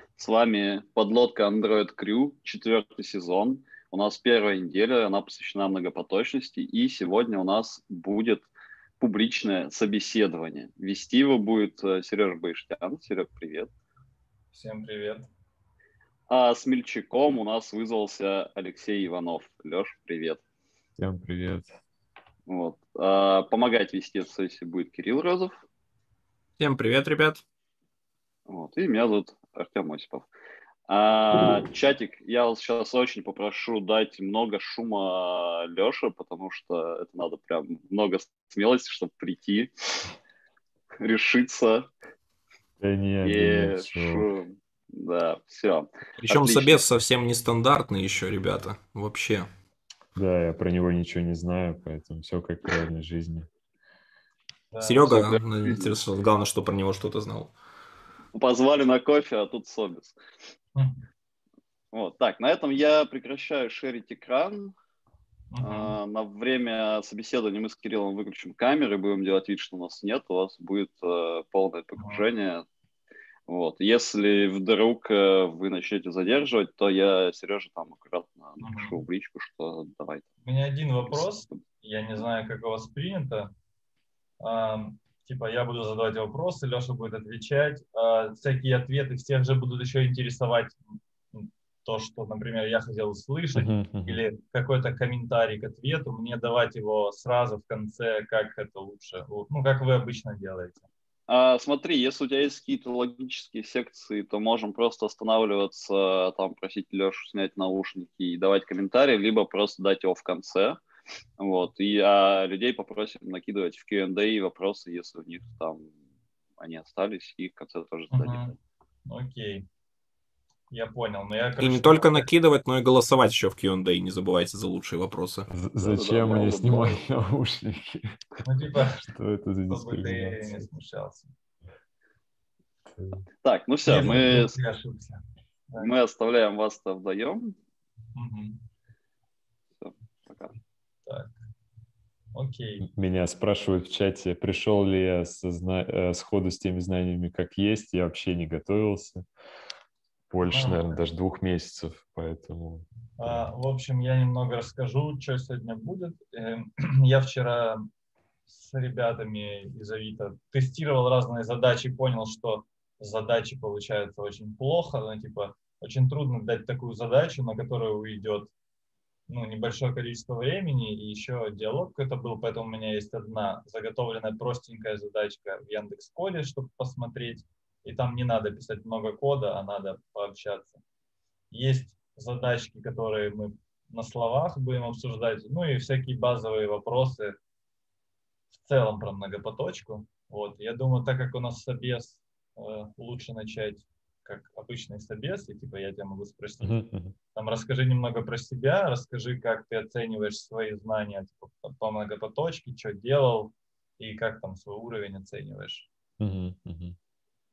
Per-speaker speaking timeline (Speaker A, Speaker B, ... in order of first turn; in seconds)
Speaker A: 0.2-13.7, 16.3-20.4, 22.5-25.6, 28.5-30.3, 30.9-40.0, 41.0-41.9, 43.2-46.8, 55.1-55.9, 58.3-60.2, 61.9-64.7, 65.6-72.7, 73.5-80.3, 81.1-81.6, 101.3-110.8, 111.4-115.9, 116.6-118.4, 125.8-127.0, 133.4-134.6, 135.8-137.6, 139.8-140.6
Speaker B: 14.5-15.3, 54.7-55.1, 60.8-61.0, 65.5-66.0, 72.0-72.2, 78.6-79.0, 80.4-83.5, 84.4-90.8, 91.3-100.9, 118.1-118.5, 119.1-119.7, 120.7-122.3, 128.4-129.1, 129.7-131.3, 133.9-135.9, 138.2-138.6, 141.1-141.3, 142.3-142.9, 150.4-151.0, 153.2-157.9, 158.5-168.5, 169.3-180.8, 181.5-187.3, 188.6-205.9
Speaker C: 21.0-21.7, 42.8-44.3, 50.1-53.5, 93.5-94.2, 125.5-130.6, 132.9-133.3, 142.8-149.2, 150.3-153.5, 196.6-197.2, 206.2-207.0
Speaker D: 26.6-27.4, 46.2-49.5, 54.8-57.5, 121.6-125.5